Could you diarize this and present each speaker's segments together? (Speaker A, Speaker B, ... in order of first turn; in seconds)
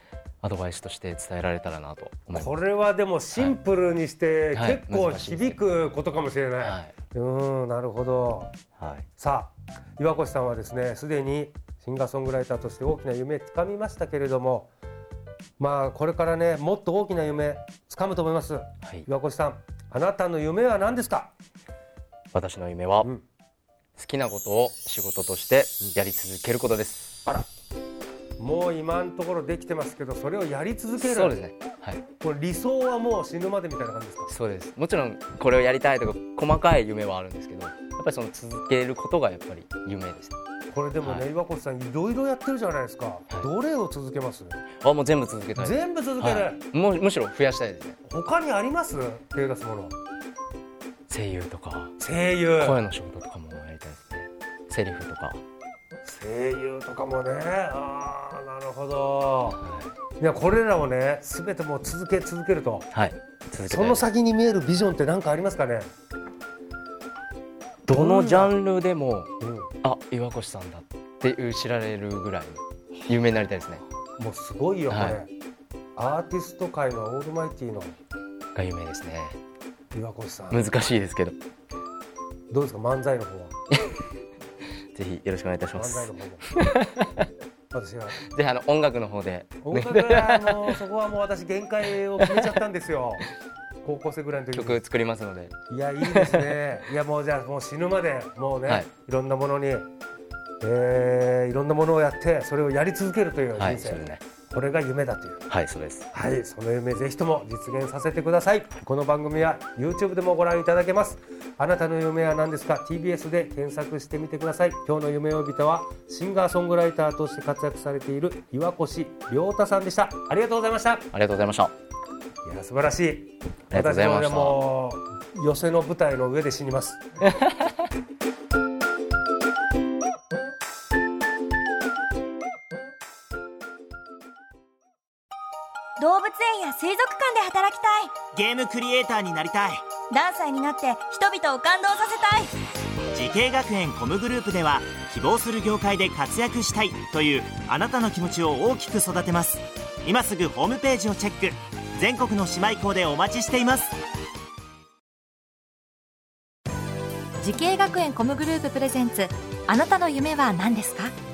Speaker A: 0.4-2.5, 4.5-5.6, 6.6-6.9, 8.8-9.1, 22.3-23.1, 23.9-27.2, 31.0-32.0, 34.3-40.4, 44.8-48.0, 51.1-51.9, 52.6-55.4, 59.6-59.9, 62.9-64.1, 67.8-69.3, 69.8-73.8, 74.9-75.2, 78.5-79.4, 80.5-81.3, 84.9-87.1, 88.3-90.8, 92.2-92.5, 94.5-96.6, 103.5-104.2, 105.5-106.1, 121.1-121.7, 123.7-124.6
Speaker B: 2.3-8.5, 9.2-14.7, 15.6-21.3, 28.4-31.3, 32.2-34.3, 40.7-44.6, 45.5-46.6, 48.0-49.9, 52.0-52.8, 56.0-59.6, 60.2-62.9, 63.6-65.9, 67.9-68.5, 69.4-69.7, 74.2-75.3, 76.0-77.9, 79.9-80.6, 82.5-83.5, 85.7-86.5, 87.7-88.2, 89.6-93.2, 93.8-94.8, 95.7-99.9, 100.6-105.4, 106.1-121.1, 122.4-127.0
Speaker C: 136.0-138.2, 140.1-142.5
Speaker D: 138.3-139.8, 143.1-153.9
Speaker E: 157.4-161.1